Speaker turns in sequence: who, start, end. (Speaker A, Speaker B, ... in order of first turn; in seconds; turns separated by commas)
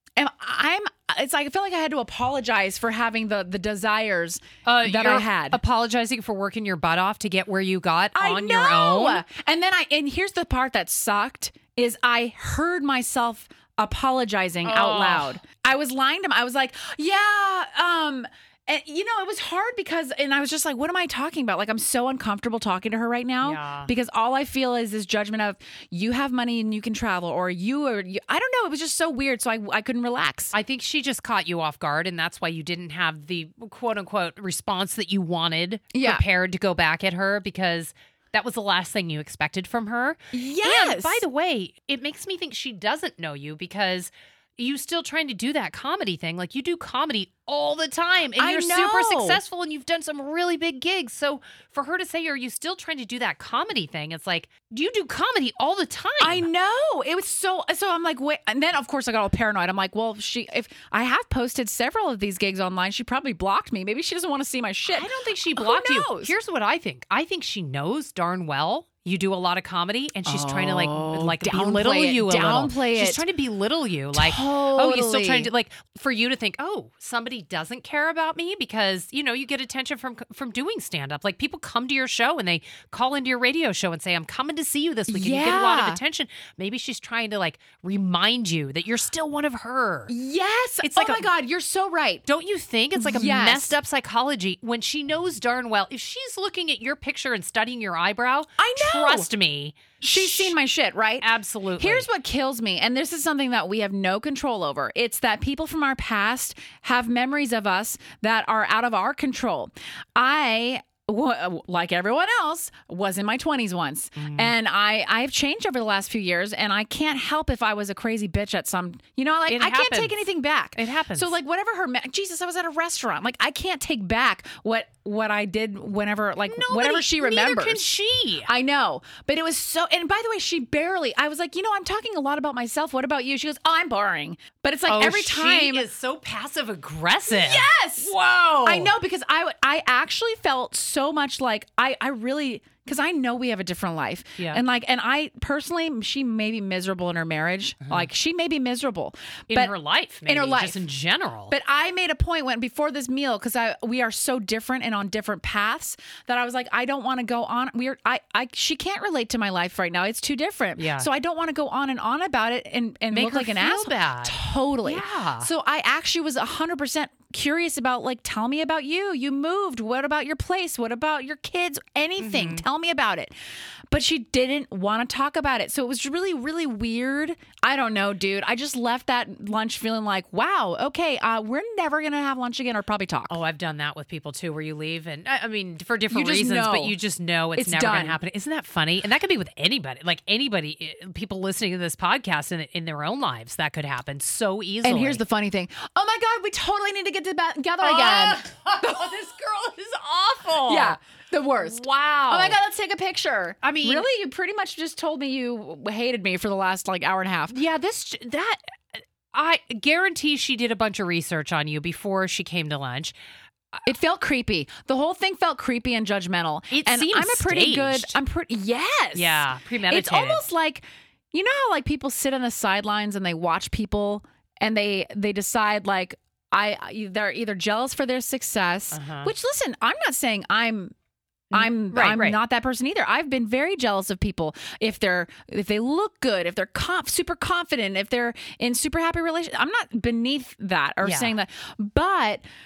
Speaker A: 0.1-5.6, Speaker B: 4.6-9.2, Speaker A: 8.1-30.5, Speaker B: 14.6-15.4, Speaker B: 23.4-23.9, Speaker B: 30.5-56.5, Speaker A: 35.9-36.2, Speaker A: 40.3-41.2, Speaker A: 48.4-49.4, Speaker A: 56.2-66.3, Speaker B: 64.9-90.1, Speaker A: 70.2-73.2, Speaker A: 74.1-75.5, Speaker A: 85.1-86.0, Speaker A: 90.1-92.2, Speaker B: 90.8-91.3, Speaker B: 92.2-100.5, Speaker A: 93.0-93.7, Speaker A: 98.6-99.3, Speaker A: 100.0-127.9, Speaker B: 101.2-102.1, Speaker B: 114.2-114.5, Speaker B: 119.5-120.2, Speaker B: 120.8-121.3, Speaker B: 126.5-128.5, Speaker A: 128.4-135.8, Speaker B: 134.9-138.9, Speaker A: 137.3-150.8, Speaker B: 149.5-151.5, Speaker A: 151.5-173.3, Speaker B: 160.8-161.1, Speaker B: 163.1-165.5, Speaker B: 172.2-172.6, Speaker A: 173.9-183.4, Speaker B: 183.3-195.2, Speaker A: 186.1-187.0, Speaker A: 187.6-188.2, Speaker A: 194.8-199.1, Speaker B: 197.8-201.0, Speaker A: 200.7-207.6, Speaker B: 201.6-202.6, Speaker B: 203.6-204.1, Speaker B: 207.5-213.1, Speaker A: 213.8-230.9, Speaker B: 216.7-218.2, Speaker B: 219.1-220.4, Speaker B: 228.9-229.3, Speaker B: 231.5-232.4, Speaker A: 231.5-242.4, Speaker B: 241.0-241.3